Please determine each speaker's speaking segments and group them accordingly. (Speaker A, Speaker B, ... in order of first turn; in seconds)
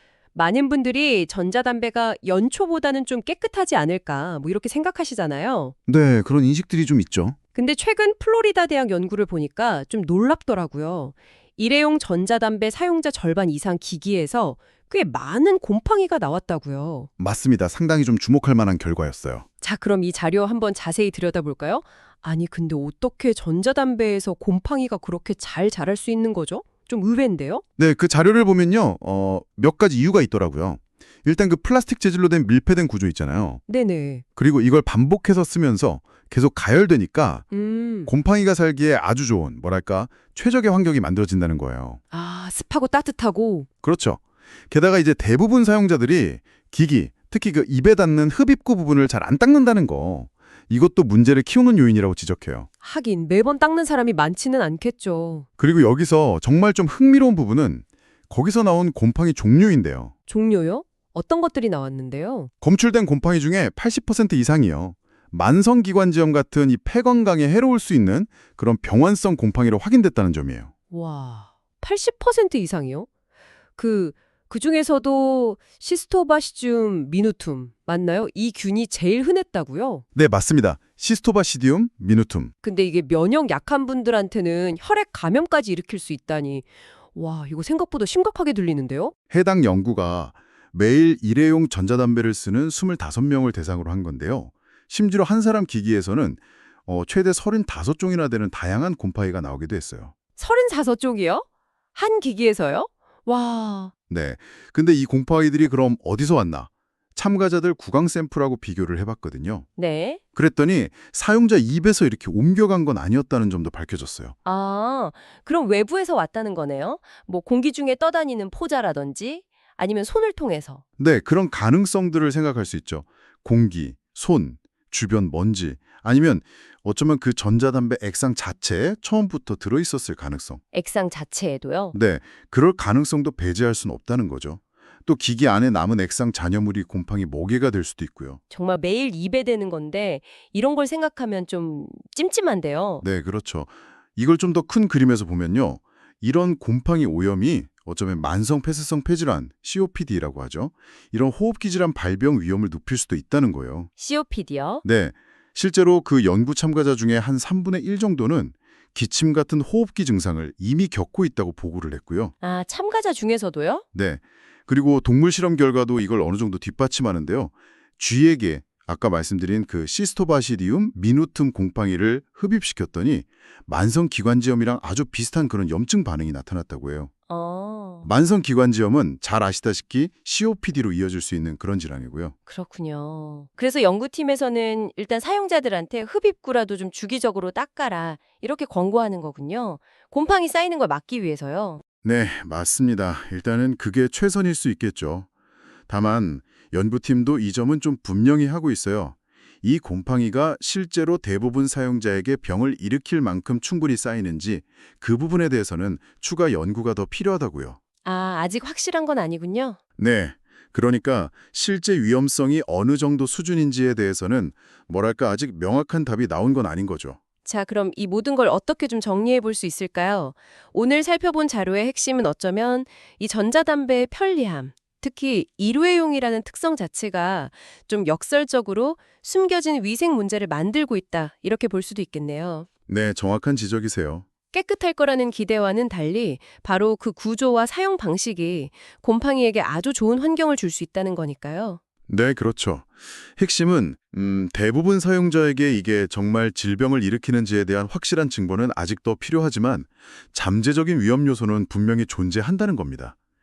Speaker A: 0.3-5.7, 7.5-17.1, 19.6-27.6, 33.7-34.2, 37.5-38.1, 42.1-43.7, 52.8-55.5, 60.3-62.5, 70.9-73.1, 73.8-80.0, 82.6-89.1, 100.4-103.9, 109.8-110.2, 114.4-120.8, 130.7-131.9, 138.5-143.0, 154.0-154.8, 162.4-163.8, 177.3-178.1, 182.5-191.8, 208.0-209.8, 217.4-232.7, 234.5-241.8
Speaker B: 5.9-7.4, 17.2-19.4, 27.8-33.6, 34.4-37.5, 38.1-42.0, 43.8-52.7, 55.6-60.1, 62.6-70.7, 80.1-82.5, 89.3-100.1, 104.1-109.7, 110.3-114.3, 121.0-130.6, 131.9-138.4, 143.0-153.9, 154.8-162.3, 163.9-177.1, 178.0-182.3, 192.0-195.3, 195.9-207.8, 210.0-217.2, 232.9-234.2, 242.1-253.2